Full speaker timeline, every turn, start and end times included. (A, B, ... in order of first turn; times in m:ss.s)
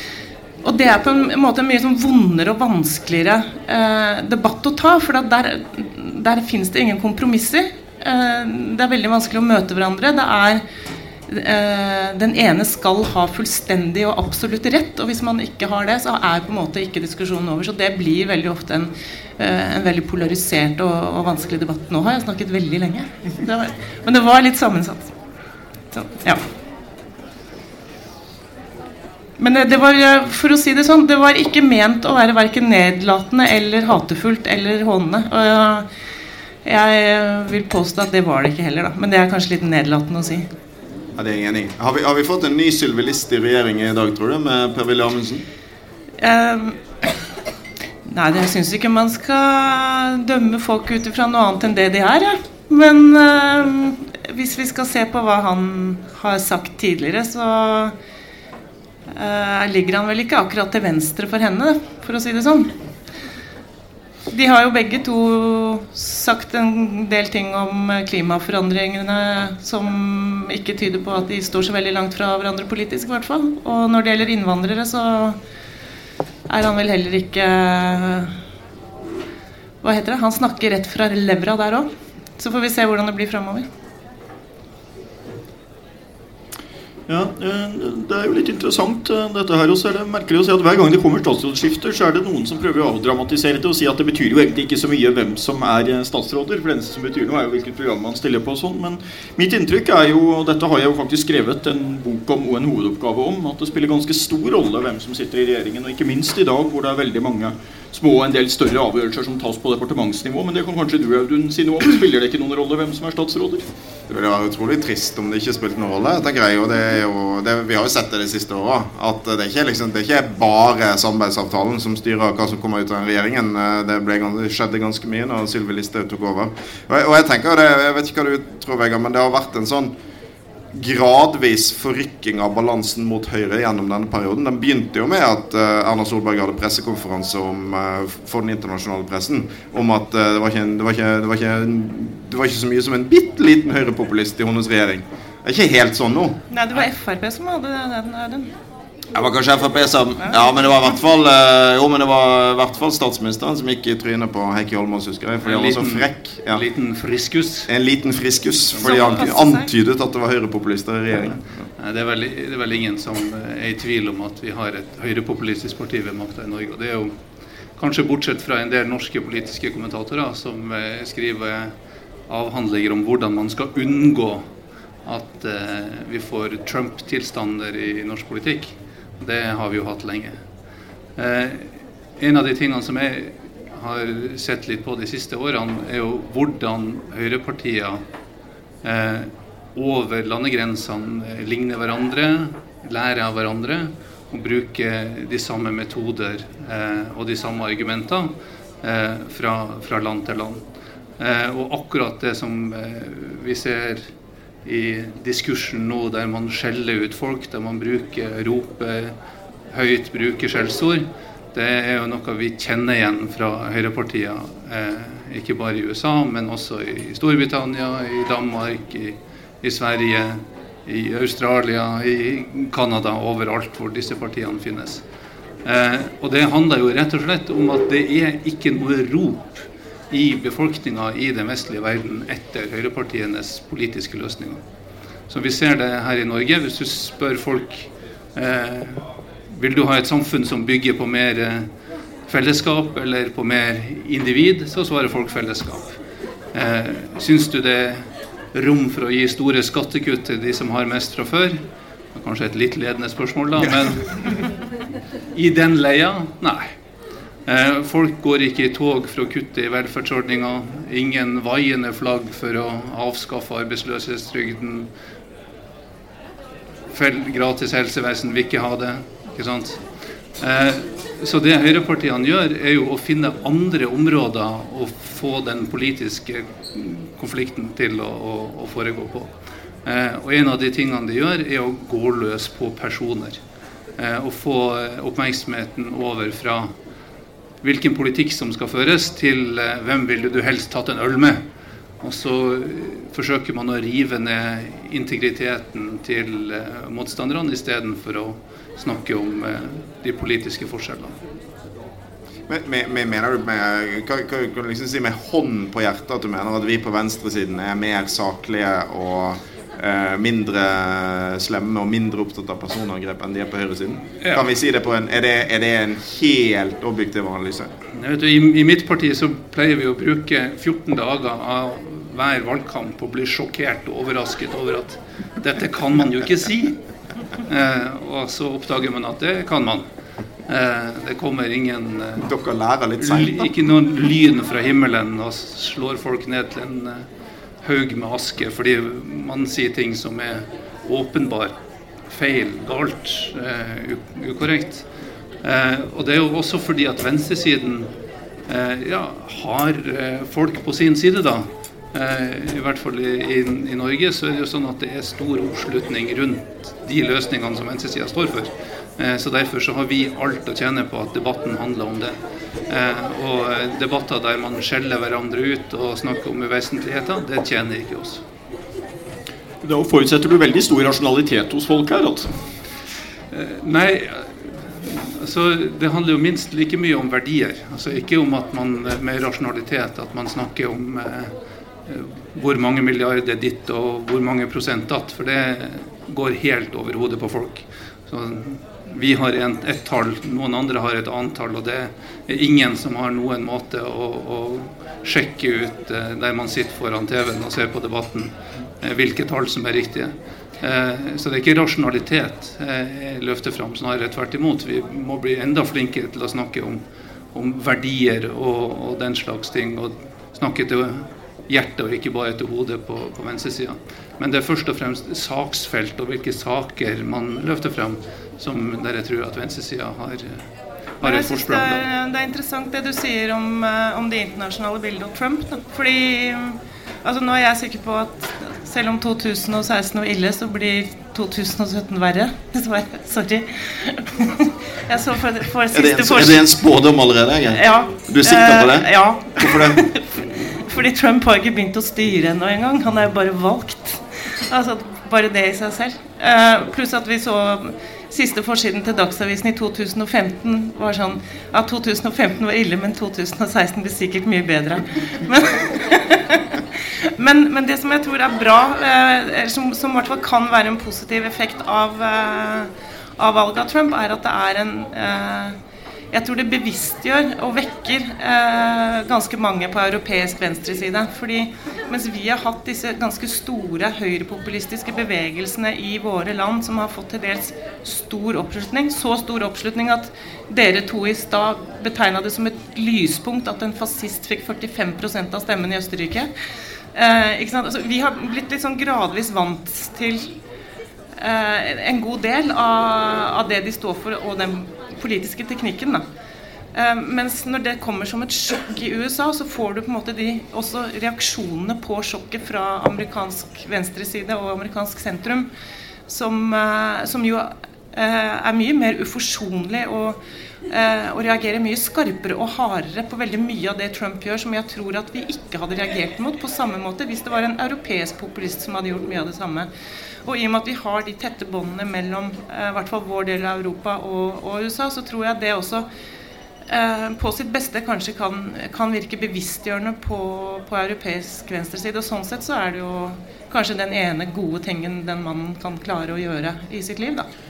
0:00.6-0:10.6 A
0:11.3-0:25.2 A
0:25.9-0:26.4 A
0:29.4-0:35.9 A
0:36.6-0:40.5 A
0:41.2-0:45.4 B
0:46.2-0:46.8 A
0:48.0-0:57.9 A
0:59.1-1:02.7 A
1:04.3-1:15.4 A
1:16.5-1:18.4 A
1:19.8-1:23.7 A
1:27.1-1:53.6 C
1:54.1-2:09.9 B
2:10.7-2:26.4 B
2:26.5-2:28.5 A
2:29.1-2:36.6 B
2:35.4-2:37.7 D
2:37.7-2:41.5 B
2:38.8-2:39.7 A
2:41.8-2:47.1 D
2:47.8-2:51.7 D
2:52.3-2:54.4 D
2:55.1-3:00.4 D
3:01.2-3:08.0 D
3:08.8-3:18.3 D
3:18.8-3:20.6 D
3:21.2-3:24.1 D
3:24.6-3:29.2 D
3:29.7-3:45.0 D
3:45.6-3:54.6 D
3:55.3-4:01.7 D
4:02.3-4:06.0 D
4:06.5-4:11.6 D
4:12.1-4:14.5 D
4:15.3-4:16.7 D
4:17.5-4:24.9 D
4:26.9-4:29.8 D
4:30.4-4:39.3 D
4:39.8-4:43.4 D
4:44.0-4:46.7 D
4:47.6-4:51.4 D
4:52.0-5:01.2 D
5:02.5-5:17.7 B
5:18.0-5:26.8 D
5:27.4-5:29.8 D
5:30.5-5:32.3 D
5:32.2-5:33.5 B
5:33.0-5:37.1 D
5:37.6-5:41.5 D
5:42.1-5:44.8 D
5:45.4-5:47.9 D
5:48.5-6:02.2 D
6:02.7-6:08.2 D
6:09.6-6:12.3 C
6:13.3-6:21.3 D
6:21.9-6:46.8 D
6:47.3-7:00.4 D
7:01.0-7:01.8 D
7:01.0-7:16.5 A
7:15.7-7:19.8 B
7:17.6-7:36.4 A
7:37.2-7:45.6 A
7:46.1-8:06.3 A
8:06.9-8:10.3 A
8:11.2-8:16.0 A
8:16.7-8:25.5 A
8:26.1-8:39.7 A
8:40.2-8:45.9 A
8:46.7-8:57.3 A